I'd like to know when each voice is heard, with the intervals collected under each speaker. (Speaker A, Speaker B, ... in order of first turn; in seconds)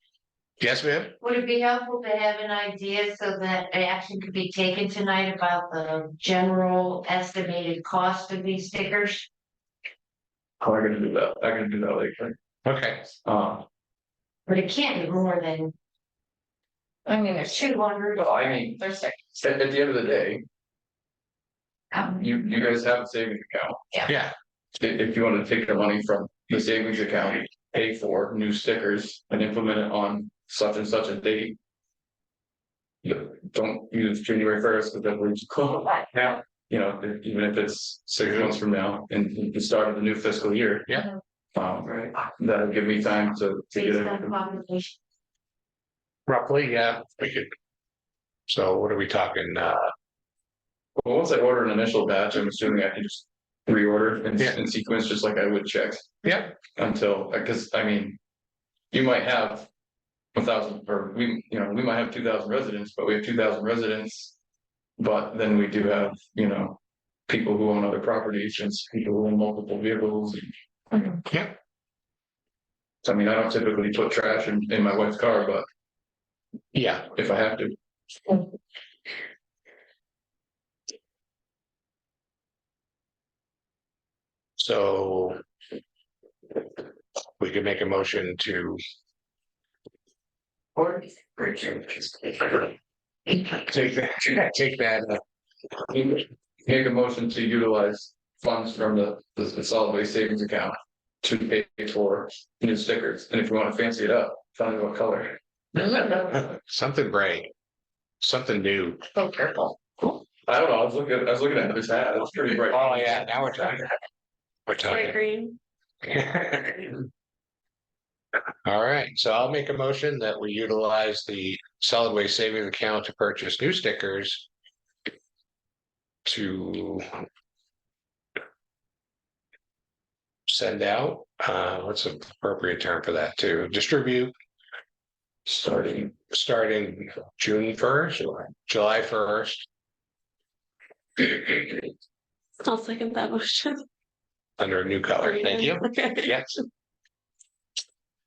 Speaker A: 0.6-1.1, 12.6-13.1, 24.0-24.3, 38.2-38.5, 46.3-47.5, 48.5-49.9, 56.2-56.5, 71.2-71.5, 76.7-77.1, 84.6-85.4, 87.4-88.8, 93.3-95.2, 105.8-107.5, 108.2-109.1, 112.7-113.9, 114.7-115.2, 116.0-117.1, 118.6-124.5, 126.2-127.1, 130.5-134.3, 136.3-139.7, 144.6-146.6
Speaker B: 1.2-9.2, 14.5-15.7, 17.4-18.6, 43.7-44.9
Speaker C: 10.6-12.3, 13.2-13.6, 18.2-18.8, 19.3-20.4, 22.2-24.1, 24.8-31.6, 33.0-40.9, 41.5-44.4, 51.0-56.1, 56.8-58.2, 58.9-59.7, 60.3-64.3, 65.0-70.5, 73.0-75.6, 77.1-77.7, 96.7-105.4, 110.5-113.3, 135.4-136.1
Speaker D: 17.1-17.7, 18.8-19.2, 90.9-91.8, 109.2-109.7
Speaker E: 114.8-115.6, 142.6-143.8, 145.2-146.3